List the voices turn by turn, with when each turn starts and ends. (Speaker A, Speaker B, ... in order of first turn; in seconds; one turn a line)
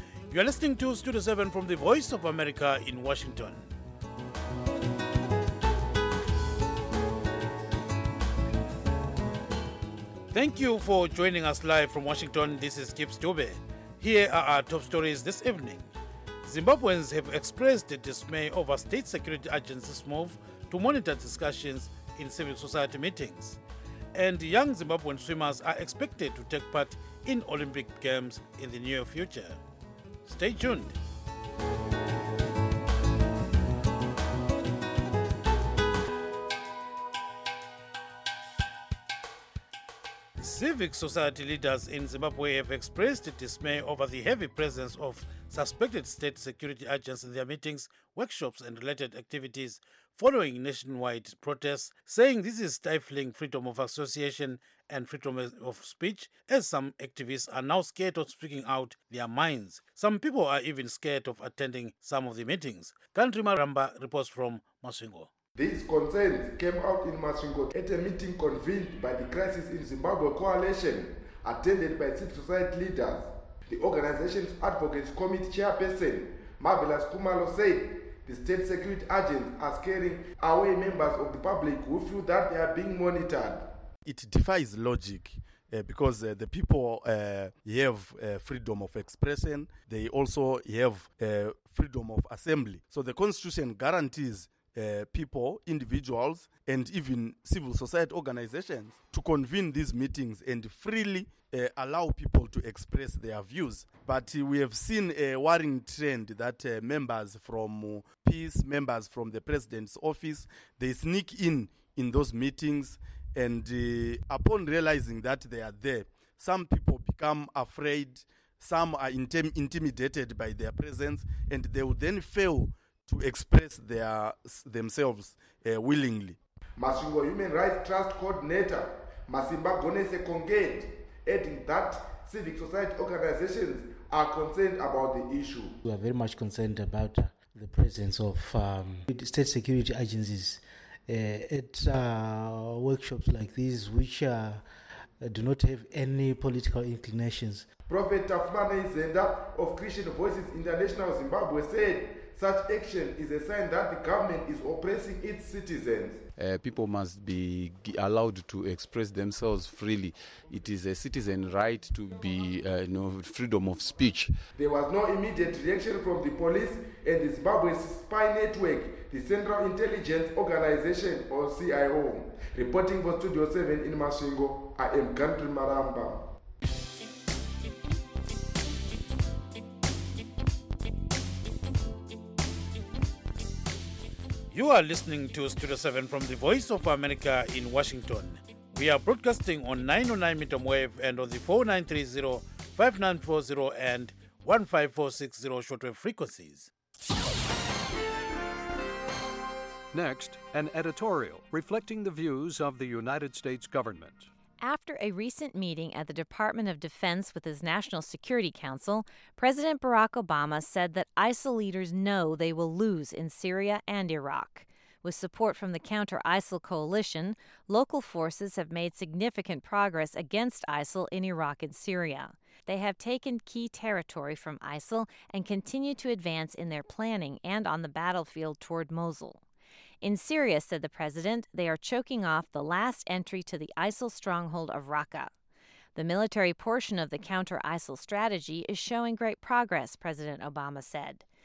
Speaker A: 0.3-3.7
Speaker A: 10.3-15.9
Speaker A: 16.4-23.6
Speaker A: 24.1-29.6
Speaker A: 30.2-31.0
Speaker A: 40.4-65.3
Speaker B: 65.5-83.7
Speaker C: 84.0-126.4
Speaker B: 126.8-135.8
Speaker D: 135.9-144.6
Speaker D: 145.2-147.6
Speaker B: 147.9-156.2
Speaker E: 156.3-164.4
Speaker B: 164.6-176.2
Speaker A: 184.5-196.7
Speaker F: 199.9-204.3
Speaker G: 204.6-229.4
Speaker G: 230.0-235.3
Speaker G: 235.9-241.2